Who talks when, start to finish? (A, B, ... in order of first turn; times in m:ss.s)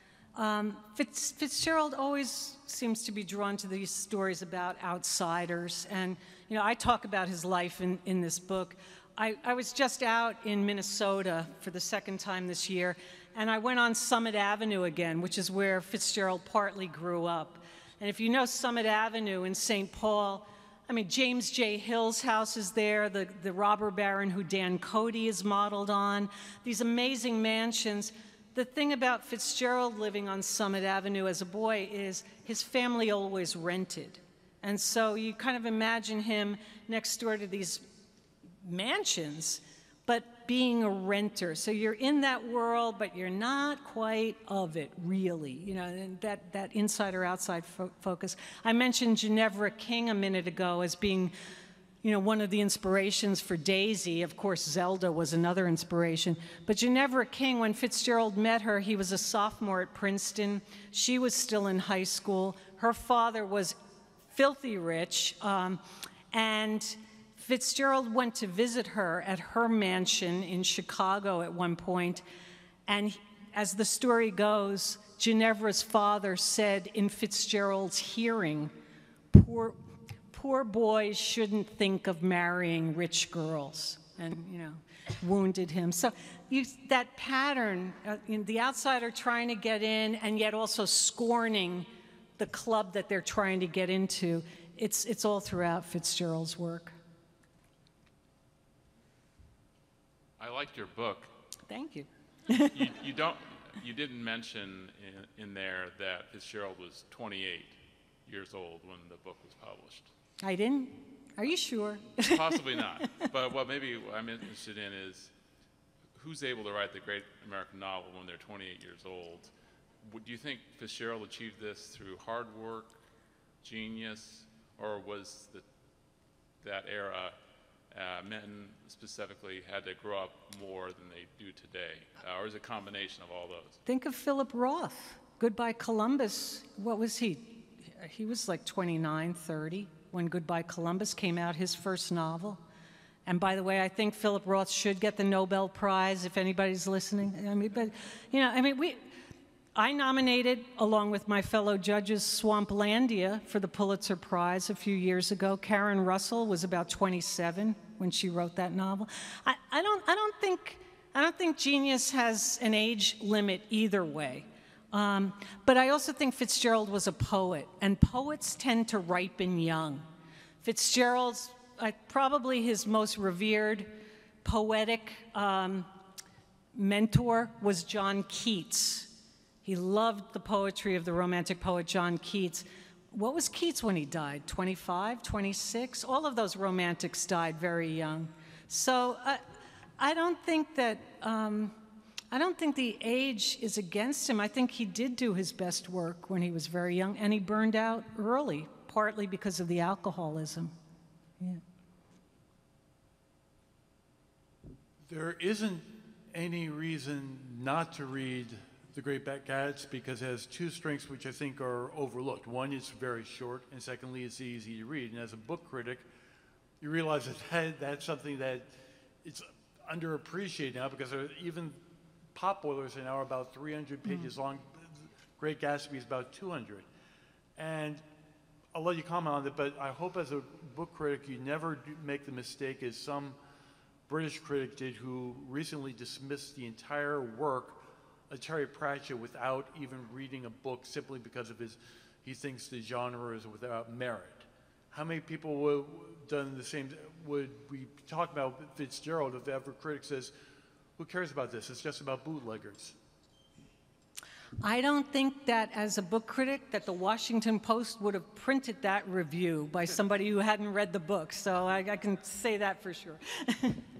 0:00.3-0:37.8 A
0:38.6-0:51.3 A
0:52.0-1:03.8 A
1:04.3-1:12.2 A
1:12.9-1:18.7 A
1:19.3-1:19.8 A
1:20.3-1:37.0 A
1:40.4-1:41.3 B
1:41.7-1:42.8 A
1:42.6-1:50.1 B
1:50.4-1:53.3 A
1:52.2-1:55.3 B
1:56.2-2:03.0 B
2:03.6-2:05.6 B
2:06.6-2:07.4 B
2:07.9-2:13.8 B
2:13.8-2:22.6 A
2:23.2-2:29.1 A
2:29.7-2:50.0 A
2:50.6-2:55.9 A
2:56.7-2:59.1 A
2:59.6-3:09.4 A
3:10.0-3:11.8 A
3:12.3-3:20.7 A
3:25.1-3:36.0 C
3:36.8-3:38.7 C
3:39.2-3:41.8 C
3:42.3-3:44.8 C
3:44.0-3:44.3 A
3:45.4-3:46.8 C
3:47.6-3:48.0 C
3:48.7-3:53.4 C
3:54.1-4:10.3 C
4:11.0-4:12.9 C
4:14.6-4:23.8 A